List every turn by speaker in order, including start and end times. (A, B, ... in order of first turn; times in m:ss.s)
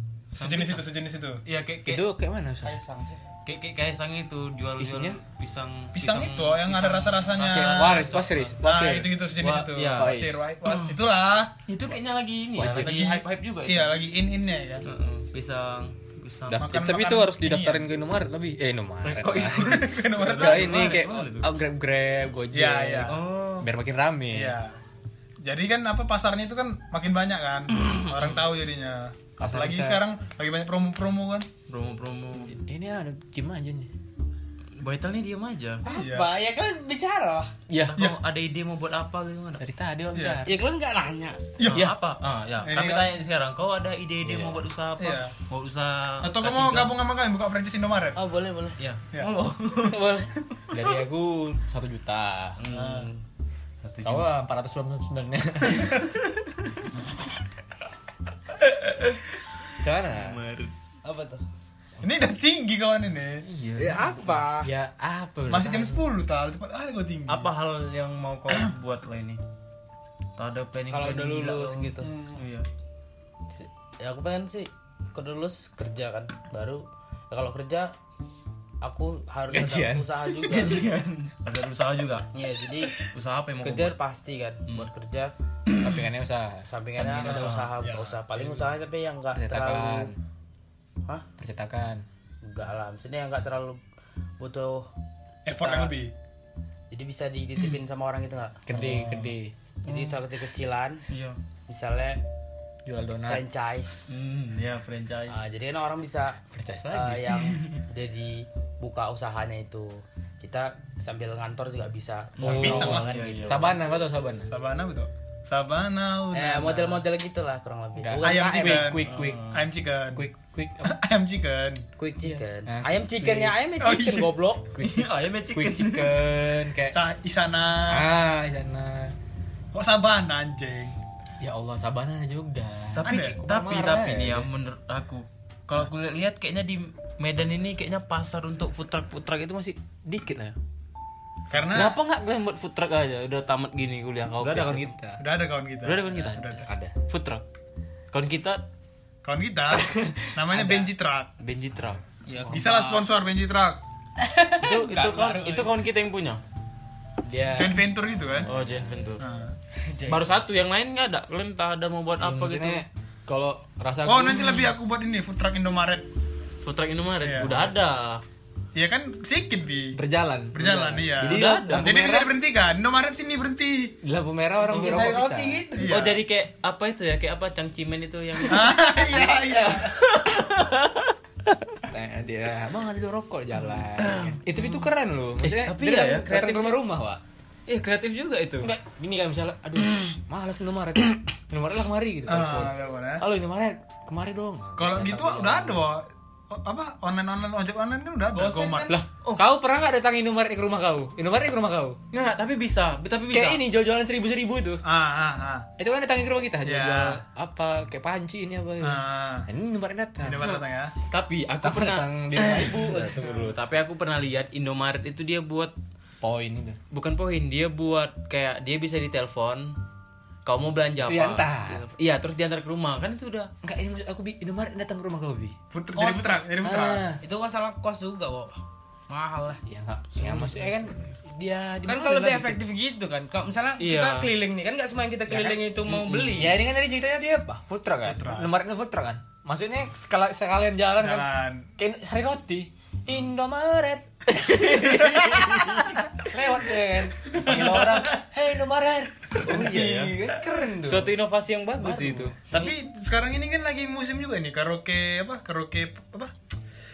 0:00.3-0:00.9 A
0:00.4-0:01.4 B
0:01.4-0:02.1 A
0:01.8-0:02.8 C
0:02.6-0:03.2 D
0:03.4-0:08.5 A
0:04.8-0:05.2 C
0:05.9-0:11.6 B
0:07.4-0:09.1 C
0:09.4-0:11.0 A
0:10.0-0:10.5 C
0:11.6-0:14.0 A
0:12.6-0:13.1 C
0:12.8-0:14.8 B
0:14.8-0:16.7 A
0:16.5-0:24.6 C
0:16.6-0:17.8 B
0:19.0-0:21.5 A
0:19.5-0:21.2 B
0:22.5-0:23.2 B
0:23.1-0:23.7 A
0:24.3-0:24.8 B
0:25.4-0:31.5 B
0:27.8-0:28.5 A
0:29.4-0:30.0 C
0:31.7-0:32.6 A
0:32.4-0:33.9 C
0:34.8-0:35.8 A
0:35.8-0:37.5 D
0:35.8-0:36.3 B
0:37.7-0:38.0 C
0:37.8-0:39.6 A
0:39.6-0:40.6 C
0:40.1-0:40.4 B
0:40.4-0:41.4 D
0:41.6-0:41.9 B
0:41.6-0:46.9 A
0:42.6-0:43.1 B
0:44.2-0:44.6 C
0:45.0-0:45.3 B
0:46.2-0:48.2 B
0:48.2-0:48.8 D
0:48.8-0:50.0 A
0:49.8-0:50.6 D
0:50.7-0:52.6 C
0:52.6-0:53.1 A
0:52.7-0:53.2 D
0:52.7-0:53.1 B
0:53.8-0:54.3 A
0:54.0-0:56.1 C
0:59.8-1:00.4 C
1:00.0-1:00.7 A
1:01.0-1:01.4 D
1:02.0-1:03.4 B
1:03.4-1:04.4 A
1:03.8-1:04.7 D
1:04.6-1:06.0 C
1:05.5-1:07.5 B
1:07.3-1:09.4 A
1:10.4-1:12.6 A
1:10.9-1:12.1 D
1:12.0-1:12.4 B
1:13.5-1:17.9 D
1:18.8-1:20.9 D
1:19.5-1:22.3 A
1:22.3-1:23.1 D
1:22.9-1:24.0 A
1:23.6-1:25.3 D
1:25.7-1:26.0 A
1:25.7-1:27.5 C
1:26.7-1:30.1 D
1:27.0-1:27.7 A
1:27.3-1:28.4 B
1:29.3-1:30.2 C
1:31.4-1:32.0 C
1:32.4-1:33.8 D
1:34.4-1:34.9 D
1:35.4-1:36.1 B
1:35.4-1:35.9 D
1:36.9-1:39.1 D
1:38.7-1:39.5 C
1:38.7-1:39.3 A
1:39.8-1:41.0 D
1:39.9-1:40.2 A
1:41.1-1:41.4 A
1:41.7-1:42.2 D
1:42.8-1:43.4 C
1:43.2-1:44.1 D
1:44.1-1:45.5 A
1:45.3-1:53.8 D
1:46.5-1:47.6 C
1:52.4-1:53.7 A
1:52.4-1:53.1 B
1:52.4-1:54.5 C
1:54.5-1:57.0 B
1:56.3-1:59.0 D
1:58.0-1:59.5 C
1:58.2-2:00.3 B
1:59.0-1:59.6 A
2:00.1-2:00.9 C
2:00.8-2:01.8 B
2:02.0-2:04.7 D
2:02.2-2:03.6 C
2:03.8-2:04.3 B
2:04.7-2:07.0 C
2:04.8-2:06.2 A
2:06.9-2:08.1 B
2:07.8-2:09.1 C
2:09.7-2:11.0 B
2:11.4-2:14.5 C
2:13.0-2:20.6 A
2:13.0-2:13.4 B
2:21.5-2:22.0 B
2:21.7-2:24.9 A
2:24.4-2:25.2 C
2:25.2-2:26.6 B
2:25.8-2:27.4 A
2:26.2-2:27.0 C
2:28.1-2:28.6 A
2:29.2-2:31.3 B
2:29.7-2:33.0 A
2:32.3-2:32.6 D
2:32.5-2:33.8 B
2:34.2-2:35.4 D
2:34.6-2:36.4 A
2:34.7-2:35.7 C
2:37.2-2:38.9 C
2:37.4-2:38.5 B
2:38.4-2:39.2 A
2:39.2-2:39.5 B
2:39.8-2:40.4 D
2:40.1-2:42.8 A
2:42.2-2:44.6 C
2:44.0-2:46.1 B
2:46.6-2:48.2 A
2:47.2-2:47.7 B
2:48.7-2:50.0 B
2:49.9-2:52.3 C
2:50.5-2:54.0 B
2:51.2-2:52.0 A
2:54.0-2:55.6 C
2:54.6-2:56.0 D
2:54.7-2:55.2 A
2:55.7-2:56.2 B
2:55.8-3:01.8 A
2:58.4-3:00.0 B
3:01.9-3:07.2 C
3:03.6-3:04.9 A
3:05.4-3:06.8 A
3:07.7-3:08.7 A
3:08.6-3:15.9 C
3:12.3-3:13.2 B
3:14.8-3:18.9 B
3:18.3-3:19.0 D
3:18.9-3:22.0 C
3:22.1-3:23.6 A
3:23.3-3:24.8 C
3:24.8-3:25.7 B
3:25.8-3:30.5 C
3:26.6-3:27.2 B
3:28.8-3:29.5 B
3:30.2-3:30.9 B
3:30.4-3:35.7 A
3:31.6-3:33.6 C
3:36.2-3:36.8 C
3:36.9-3:39.8 A
3:40.4-3:43.5 A
3:41.0-3:41.8 C
3:43.6-3:45.6 C
3:45.7-3:47.1 B
3:46.0-3:46.4 D
3:46.6-3:47.2 C
3:47.2-3:49.6 D
3:49.6-3:52.6 C
3:50.1-3:51.1 A
3:51.8-3:56.6 D
3:53.8-3:54.3 A
3:55.3-3:55.6 C
3:55.8-3:56.5 A
3:56.3-4:11.1 C
3:58.0-3:58.5 B
4:01.0-4:01.7 B
4:04.4-4:06.0 A
4:07.4-4:08.1 B
4:09.3-4:10.1 A
4:09.5-4:09.8 B
4:10.8-4:12.4 A
4:11.8-4:12.7 C
4:12.5-4:16.3 B